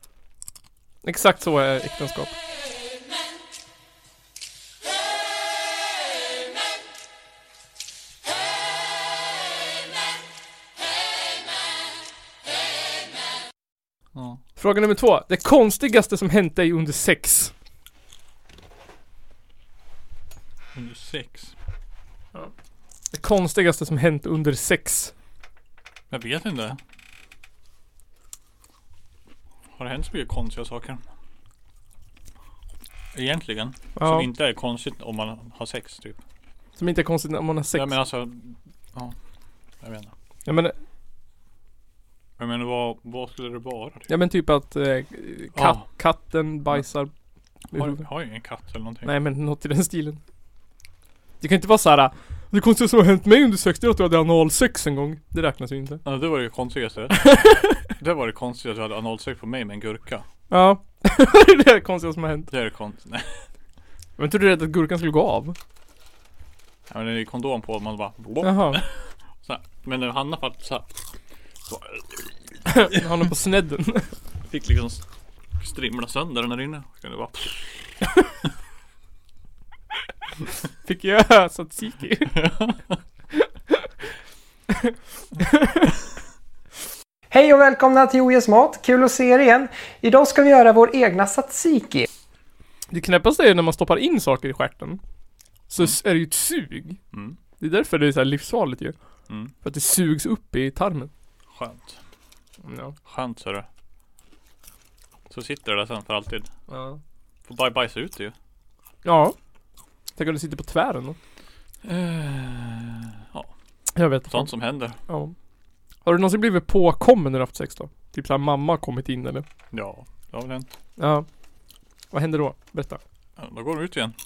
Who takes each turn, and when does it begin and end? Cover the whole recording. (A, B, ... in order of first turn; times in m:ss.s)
0:01.0-0:02.3 A
0:14.1-0:14.4 B
0:14.6-0:17.5 A
0:20.7-0:21.5 B
0:23.1-0:25.1 A
0:26.1-0:26.8 B
0:29.8-0:31.0 B
0:33.1-0:36.2 B
0:34.0-0:34.3 A
0:36.8-0:37.9 A
0:37.7-0:39.1 B
0:39.8-0:40.1 B
0:40.4-0:40.7 A
0:42.4-0:44.1 B
0:44.1-0:47.1 A
0:45.5-0:45.9 B
0:47.7-0:48.0 A
0:47.7-0:49.1 B
0:49.0-0:50.2 A
0:51.4-0:56.0 A
0:56.0-1:00.2 B
0:57.2-0:57.8 A
1:00.5-1:02.5 A
1:02.5-1:03.4 B
1:04.2-1:05.6 A
1:06.9-1:10.9 B
1:08.4-1:08.8 A
1:11.7-1:12.3 B
1:12.7-1:14.1 A
1:14.5-1:15.0 B
1:15.6-1:18.0 B
1:20.8-1:22.4 A
1:22.4-1:22.8 B
1:25.4-1:25.9 A
1:27.3-1:32.0 C
1:32.9-1:35.0 A
1:35.7-1:37.0 A
1:37.6-1:39.0 A
1:39.6-1:41.1 A
1:41.5-1:42.0 B
1:42.6-1:42.9 A
1:43.0-1:43.6 B
1:45.3-1:46.5 B
1:46.7-1:47.0 A
1:47.4-1:48.3 B
1:49.0-1:49.4 A
1:50.2-1:51.2 A
1:51.8-1:53.5 B
1:53.9-1:55.3 A
1:54.2-1:55.0 B
1:56.0-1:59.4 A
1:59.7-2:00.7 B
2:01.0-2:01.2 A
2:02.1-2:03.0 A
2:03.4-2:04.1 B